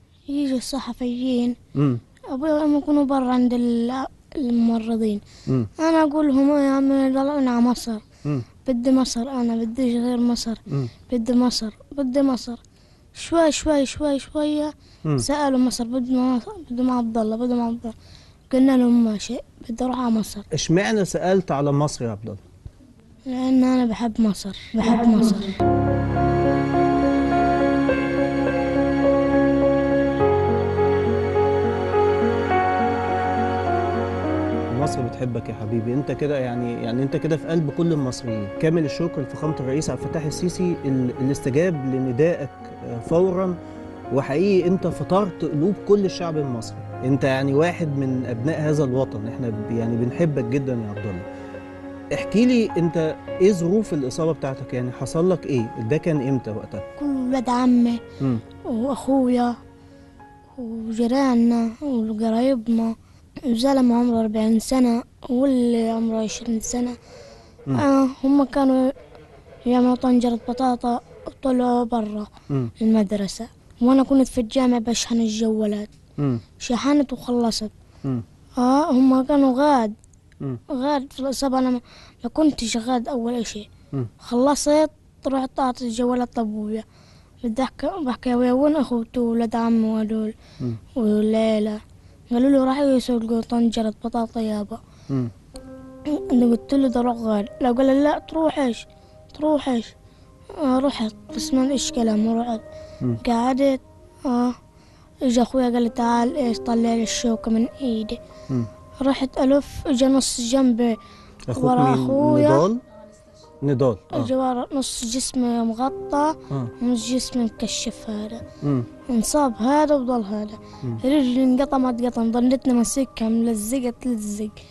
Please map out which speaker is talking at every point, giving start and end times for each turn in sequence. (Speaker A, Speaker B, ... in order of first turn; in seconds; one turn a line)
Speaker A: 0.3-1.6
Speaker A: 2.3-5.2
Speaker A: 5.8-8.0
Speaker A: 8.7-12.6
Speaker A: 13.2-17.9
Speaker A: 18.5-20.5
Speaker B: 20.5-22.4
Speaker A: 23.3-25.5
Speaker B: 34.7-43.6
Speaker B: 44.1-51.2
Speaker B: 52.1-56.9
Speaker A: 57.0-58.0
Speaker A: 58.7-59.5
Speaker A: 60.6-63.0
Speaker A: 63.5-67.0
Speaker A: 67.8-68.9
Speaker A: 69.7-75.9
Speaker A: 76.6-77.7
Speaker A: 78.6-79.9
Speaker A: 80.7-83.7
Speaker A: 84.2-86.8
Speaker A: 87.4-90.3
Speaker A: 91.0-91.8
Speaker A: 92.3-94.8
Speaker A: 96.3-99.9
Speaker A: 100.6-102.6
Speaker A: 103.2-104.5
Speaker A: 105.3-108.2
Speaker A: 109.0-111.0
Speaker B: 111.5-112.8
Speaker A: 111.5-112.7
Speaker B: 113.6-114.3
Speaker A: 114.1-118.4
Speaker A: 119.1-124.6